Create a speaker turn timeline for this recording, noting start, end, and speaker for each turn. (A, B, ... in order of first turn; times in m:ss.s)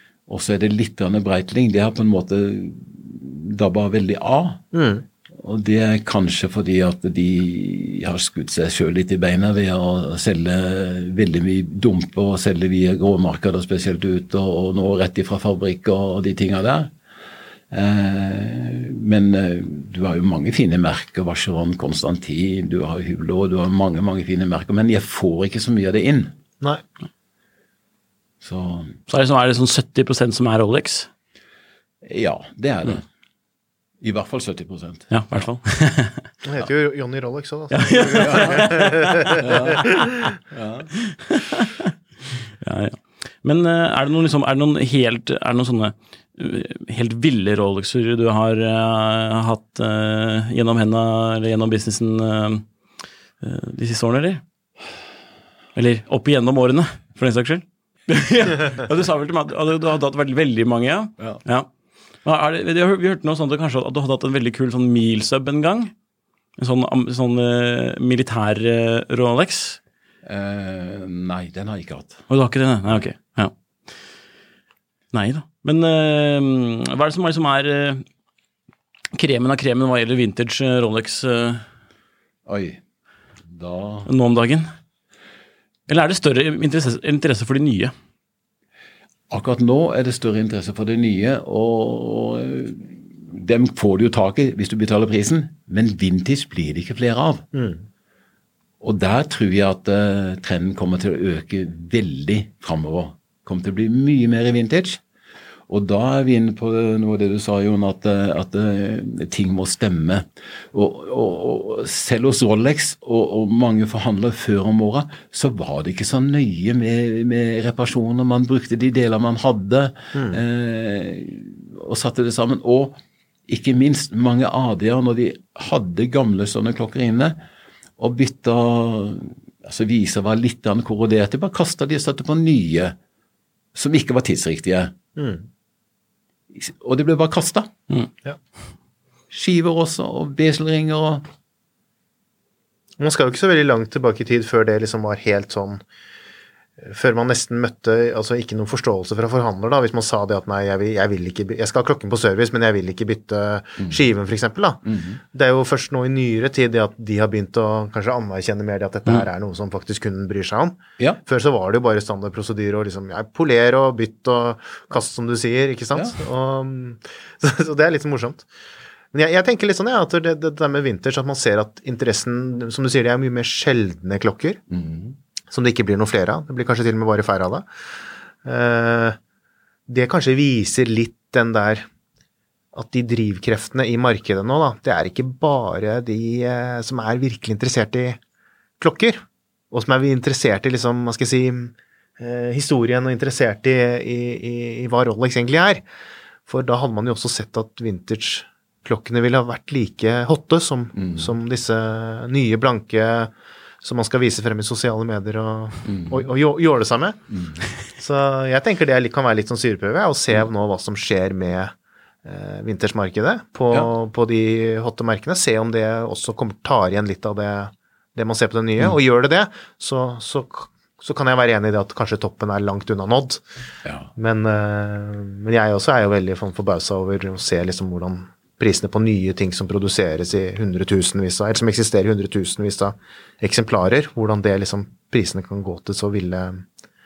0:00.3-0:04.6 A
0:04.7-0:05.0 B
0:05.3-0:16.9 A
0:17.7-0:26.3 A
0:28.4-0:29.0 A
0:29.1-0:31.1 C
0:32.0-0:33.0 A
0:34.0-0:35.4 A
0:35.1-0:36.2 C
0:36.4-0:39.7 B
0:37.7-0:39.2 C
0:38.2-0:38.8 A
0:39.4-0:39.9 A
0:39.8-0:40.1 C
0:40.5-0:40.9 A
0:41.1-0:41.9 C
0:42.6-0:52.6 C
0:53.4-0:54.4 C
0:55.8-1:01.7 C
1:02.2-1:05.9 C
1:06.6-1:09.8 C
1:10.2-1:12.3 A
1:12.3-1:13.5 C
1:15.1-1:18.0 C
1:19.1-1:21.6 C
1:22.4-1:22.8 A
1:23.5-1:24.1 A
1:24.0-1:24.7 C
1:25.9-1:27.9 C
1:29.3-1:37.4 A
1:37.5-1:37.8 B
1:38.8-1:45.0 A
1:45.7-2:07.4 A
2:00.1-2:00.4 B
2:08.0-2:12.9 A
2:13.7-2:14.9 A
2:15.2-2:15.5 B
2:16.5-2:17.7 A
2:19.3-2:21.2 A
2:23.0-2:25.8 B
2:26.8-2:48.5 B
2:34.8-2:35.2 A
2:49.1-2:54.6 B
2:54.7-2:55.2 A
2:55.5-2:57.7 B
2:58.4-2:59.2 B
2:59.9-3:01.9 B
3:02.7-3:08.2 B
3:08.8-3:15.8 B
3:16.4-3:27.2 B
3:20.9-3:21.3 A
3:25.8-3:26.3 A
3:27.3-3:27.7 A
3:27.9-3:43.4 B
3:43.8-3:44.1 A
3:44.2-3:56.6 B